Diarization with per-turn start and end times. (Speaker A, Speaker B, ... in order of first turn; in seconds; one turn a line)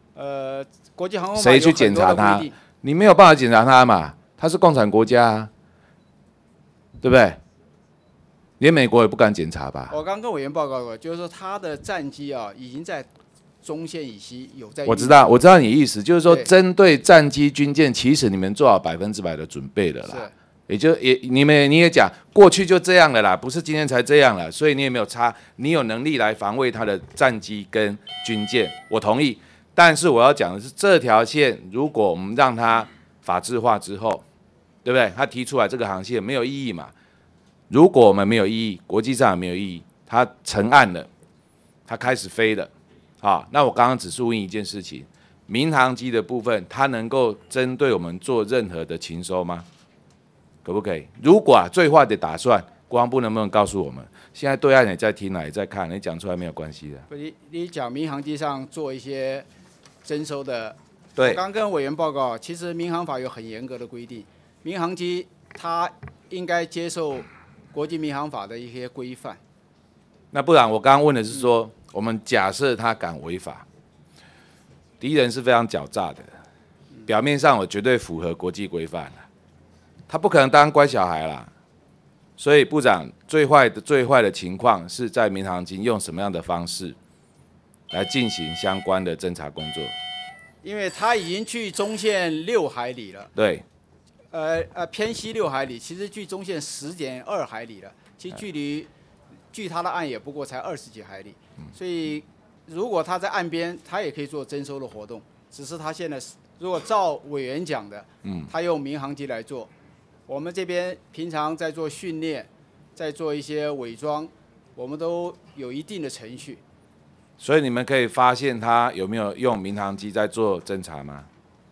Speaker A: 0.1-2.5
Speaker B: 1.3-5.5
Speaker B: 7.0-7.4
Speaker B: 8.6-9.9
Speaker A: 9.9-13.1
Speaker A: 13.6-15.2
Speaker B: 14.8-34.2
Speaker A: 20.0-20.3
Speaker B: 34.8-36.9
Speaker B: 37.7-41.1
Speaker B: 41.9-42.7
Speaker B: 43.2-49.6
Speaker B: 50.6-57.0
Speaker A: 57.1-59.5
Speaker A: 60.0-69.4
Speaker B: 61.2-61.4
Speaker B: 70.3-73.6
Speaker B: 75.0-76.3
Speaker B: 77.0-79.2
Speaker B: 80.1-81.5
Speaker B: 82.4-86.9
Speaker B: 87.9-89.9
Speaker A: 90.6-93.3
Speaker B: 93.3-93.6
Speaker A: 94.3-98.9
Speaker A: 99.5-109.7
Speaker B: 108.2-108.5
Speaker A: 110.3-116.6
Speaker B: 117.4-121.3